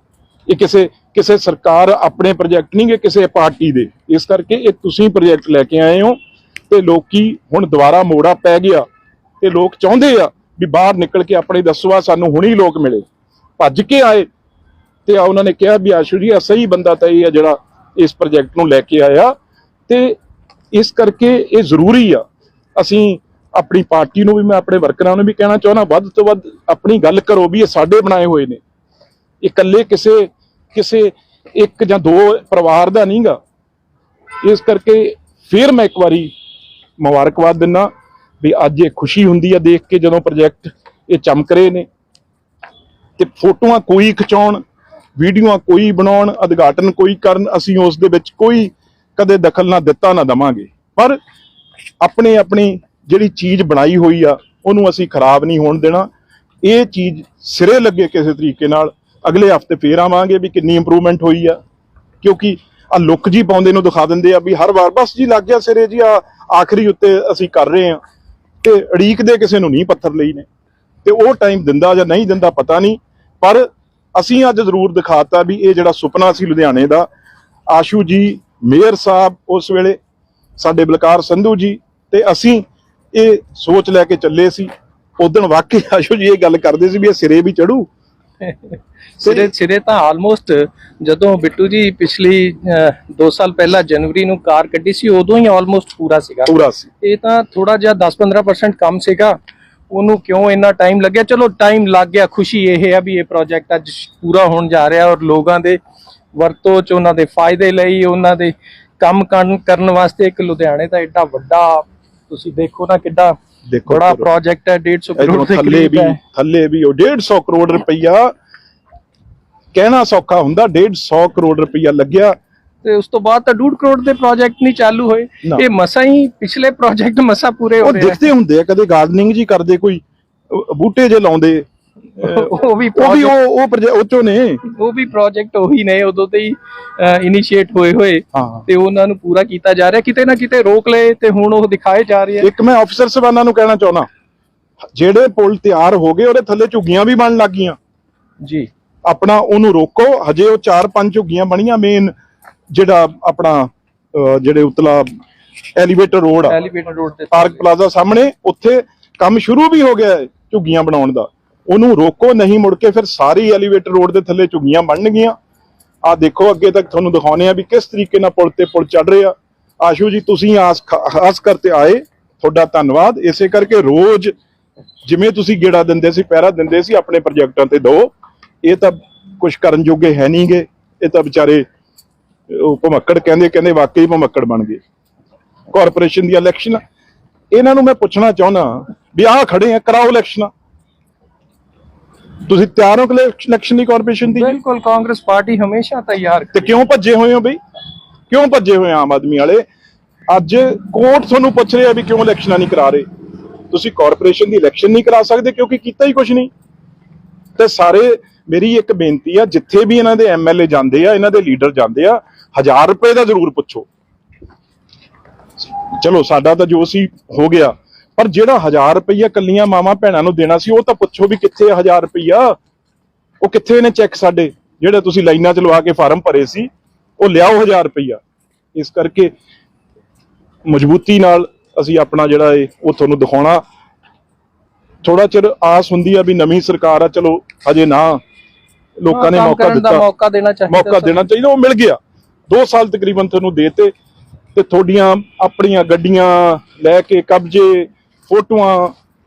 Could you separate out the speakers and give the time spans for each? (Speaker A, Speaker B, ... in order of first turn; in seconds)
Speaker A: 0.5-6.2, 6.7-8.8, 9.4-13.1, 13.6-14.3, 15.1-19.4, 19.9-20.2, 20.7-22.2, 22.8-28.6, 29.4-33.4, 34.4-36.3, 37.0-37.9, 38.4-41.9, 43.2-44.6, 45.2-51.2, 52.0-56.1, 56.6-61.6, 62.2-68.0, 68.6-70.5, 71.0-77.1, 77.7-80.0, 80.6-87.9, 96.5-96.9, 113.7-114.3, 115.2-118.3, 119.7-122.4, 127.8-131.7, 132.2-134.6, 138.3-138.7, 142.4-144.1, 145.0-147.8, 149.1-152.1, 152.7-155.1, 155.8-156.6, 157.3-165.4, 166.1-174.3, 175.0-181.7, 182.5-184.8, 185.7-186.8, 187.5-190.5, 192.5-194.6, 196.5-197.6, 198.3-199.7, 200.3-203.1, 203.7-206.5, 207.6-213.9, 215.6-222.6, 223.4-228.2, 228.8-229.3, 230.7-233.6, 235.0-238.2, 239.0-240.1, 240.7-243.9, 244.6-248.9
Speaker B: 88.4-99.4, 99.9-105.8, 106.3-116.2, 122.8-128.3, 132.2-133.3, 134.7-142.5, 148.4-148.7, 156.5-157.7, 194.4-196.7, 239.1-241.2